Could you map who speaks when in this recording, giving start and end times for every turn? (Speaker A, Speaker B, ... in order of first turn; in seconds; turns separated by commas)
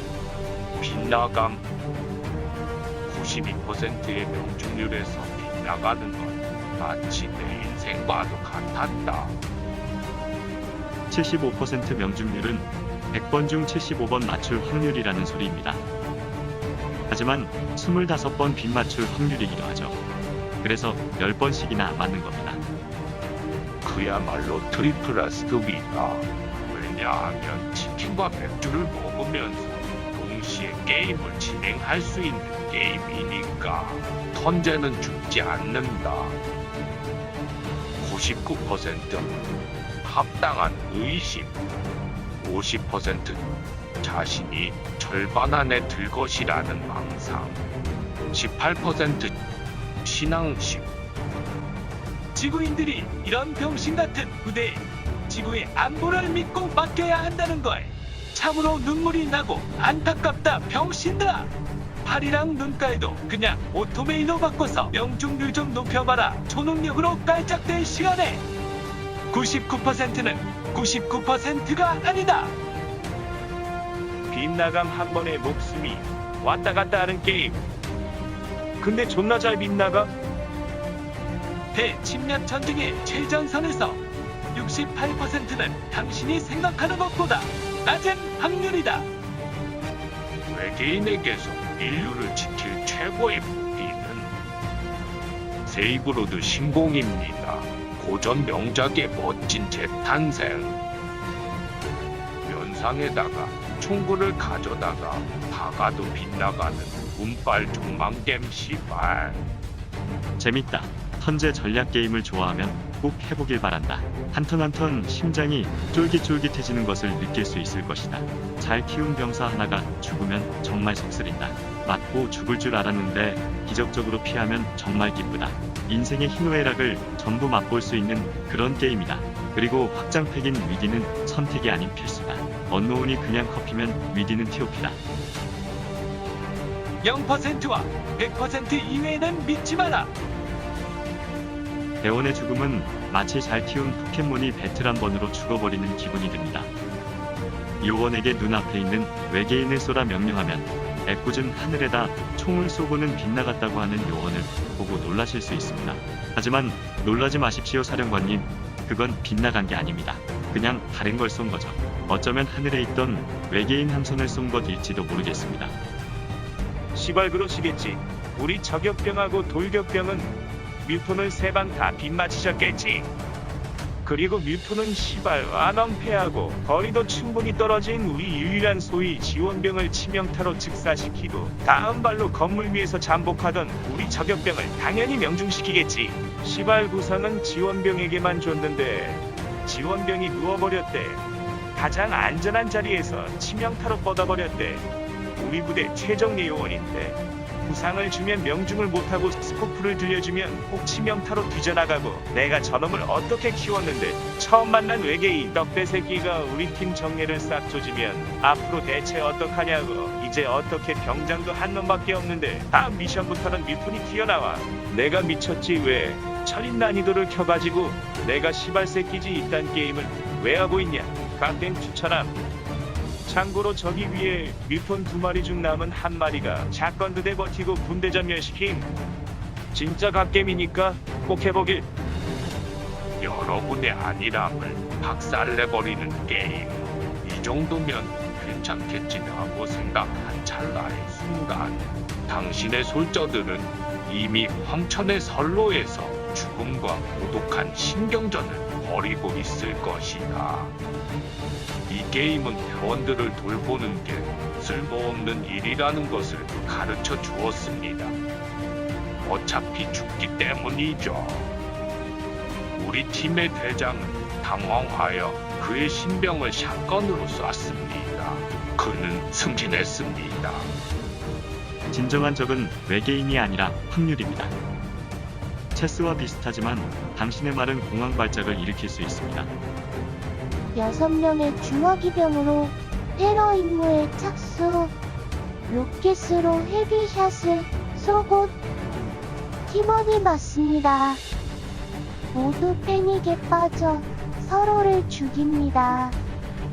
Speaker A: 0.8-1.7, Speaker A: 3.1-9.4, Speaker B: 11.1-15.8, Speaker B: 17.1-20.0, Speaker B: 20.6-22.6, Speaker A: 23.8-36.4, Speaker A: 38.0-39.3, Speaker A: 40.0-41.6, Speaker A: 42.4-43.5, Speaker A: 44.0-47.6, Speaker A: 48.3-49.3, Speaker A: 50.0-50.9, Speaker C: 52.4-61.5, Speaker C: 62.0-68.4, Speaker C: 69.3-72.5, Speaker D: 74.3-77.6, Speaker D: 78.8-80.1, Speaker C: 81.7-84.0, Speaker C: 84.5-89.1, Speaker A: 90.5-94.3, Speaker A: 95.7-100.8, Speaker A: 102.4-109.4, Speaker B: 110.4-135.0, Speaker C: 137.0-140.1, Speaker B: 142.0-146.7, Speaker B: 147.8-165.8, Speaker D: 166.9-173.1, Speaker D: 174.0-191.2, Speaker D: 191.8-194.9, Speaker D: 195.4-222.4, Speaker D: 223.2-228.9, Speaker D: 229.7-231.9, Speaker A: 233.2-250.7, Speaker A: 251.9-258.2, Speaker A: 259.2-261.5, Speaker A: 262.8-270.7, Speaker B: 271.9-274.6, Speaker B: 275.7-279.5, Speaker E: 280.7-284.9, Speaker E: 285.7-288.6, Speaker E: 289.7-291.2, Speaker E: 292.3-296.2